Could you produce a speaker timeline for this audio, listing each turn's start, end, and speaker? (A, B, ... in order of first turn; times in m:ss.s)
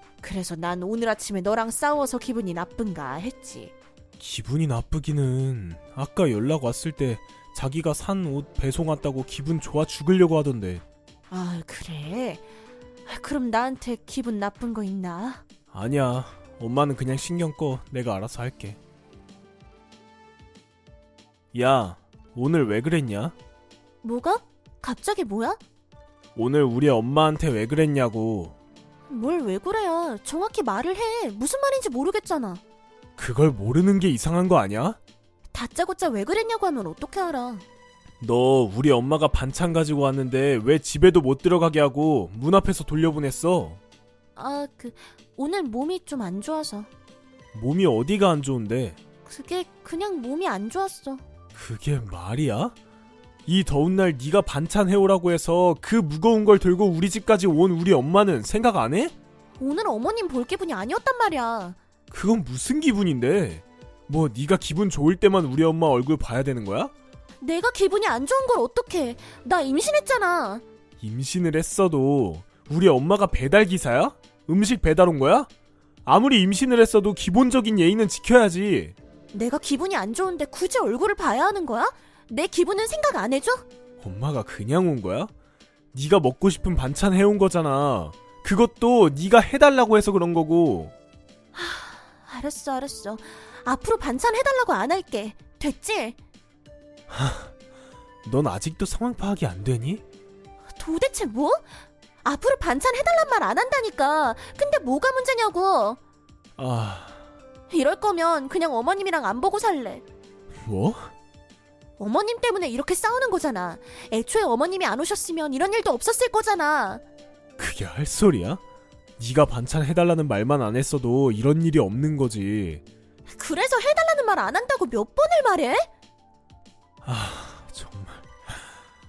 0:00.2-0:03.7 A
0:04.2-0:10.8 B
0:11.3-0:12.4 A
0:13.1-0:15.4 A
0:15.7-0:18.8 B
0:21.5-0:23.3 B
0:24.0-0:25.6 A
0:26.4-0:28.5 B
0:29.1-0:32.6 A
0:33.2-0:35.0 B
0:35.5-0:37.6 A
0:38.2-0:43.8 B
0:44.4-0:46.9 A
0:47.5-0:49.0 B
0:49.2-0:51.2 A
0:51.5-0:52.7 B
0:53.4-0:59.1 B
0:59.6-1:01.8 A
1:02.1-1:06.9 B
1:07.4-1:10.6 A
1:11.0-1:15.5 B
1:16.0-1:18.9 B
1:19.3-1:23.6 A
1:24.0-1:25.3 B
1:25.9-1:30.9 B
1:31.5-1:36.2 A
1:37.1-1:37.5 B
1:38.2-1:40.0 B
1:40.8-1:41.7 A
1:42.2-1:46.0 A
1:46.6-1:47.2 B
1:47.7-1:50.0 A
1:50.6-1:51.1 B
1:52.0-1:57.0 A
1:57.6-1:58.6 B
1:59.2-2:02.8 B
2:03.3-2:05.9 A
2:07.0-2:08.3 B